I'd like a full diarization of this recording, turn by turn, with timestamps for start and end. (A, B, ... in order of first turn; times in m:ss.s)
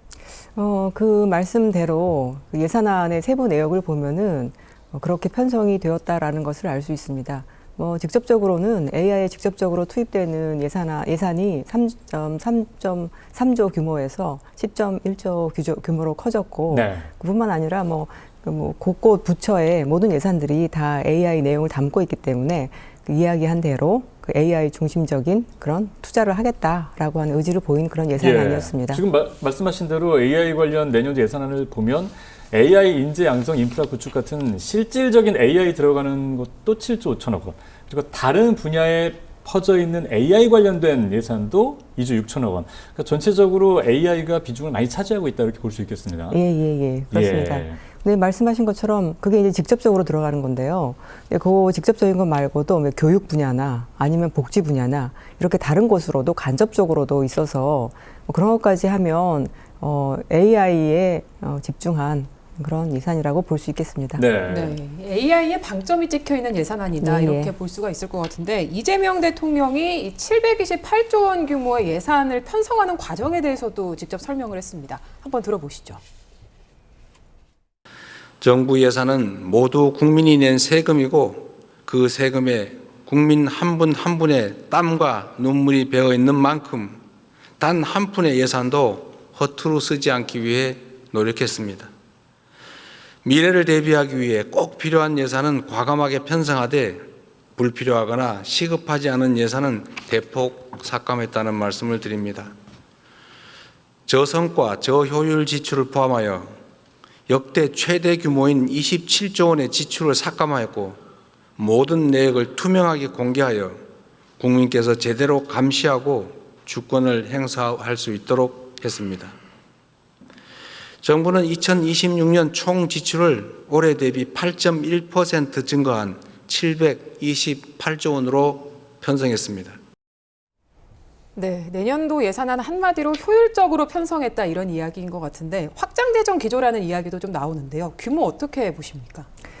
0:00.6-0:29.0 A
0:16.7-0:17.1 B
0:28.2-0:46.4 B
0:46.3-1:04.2 A
0:47.1-0:47.8 B
1:04.2-1:04.8 B
1:04.5-1:16.0 C
1:07.0-1:07.5 A
1:18.4-1:27.0 D
1:27.6-1:31.9 D
1:33.2-1:37.0 D
1:37.6-1:42.5 D
1:44.1-1:46.5 D
1:47.3-1:51.0 D
1:51.6-1:53.8 D
1:54.4-1:59.3 D
2:01.0-2:09.8 D
2:11.3-2:19.3 C